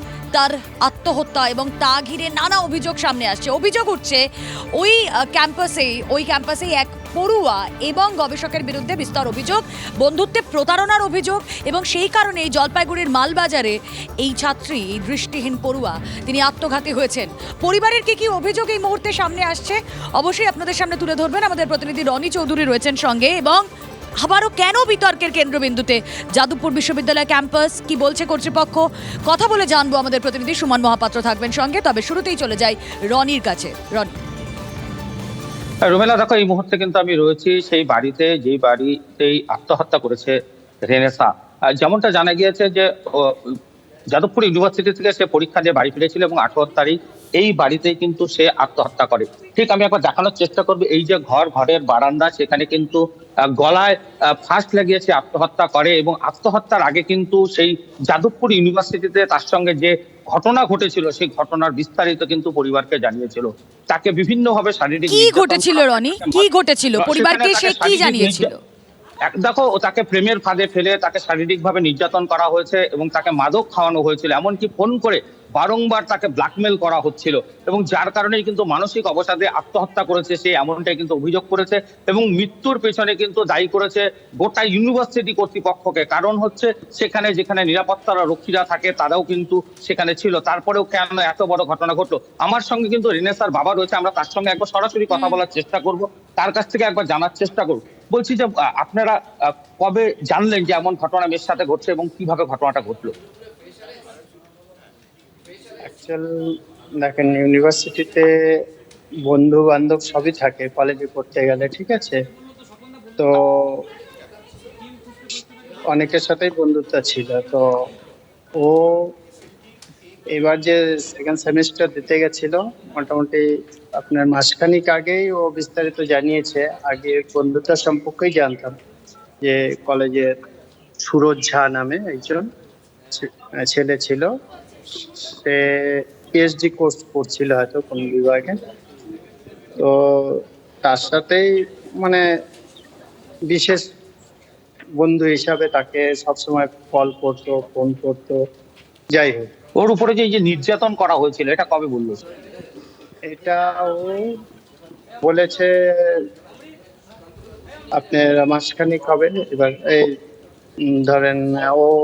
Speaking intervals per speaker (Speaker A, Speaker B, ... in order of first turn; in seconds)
Speaker A: 0.3-4.2, 4.7-23.6, 24.2-34.1, 65.1-68.6, 95.1-95.4
Speaker B: 35.8-43.5, 44.1-66.5, 67.0-68.5, 69.3-103.1, 149.8-152.2
Speaker C: 105.9-106.3, 107.0-108.3, 109.3-112.2, 113.2-113.8, 115.9-117.6, 118.6-119.1, 120.3-123.4, 124.0-128.7, 129.4-130.3, 131.0-132.4, 133.1-134.3, 135.2-138.6, 139.8-141.4, 143.5-143.9, 145.0-148.4, 149.1-149.5, 153.3-154.2, 155.2-156.2, 158.0-160.1, 160.9-161.9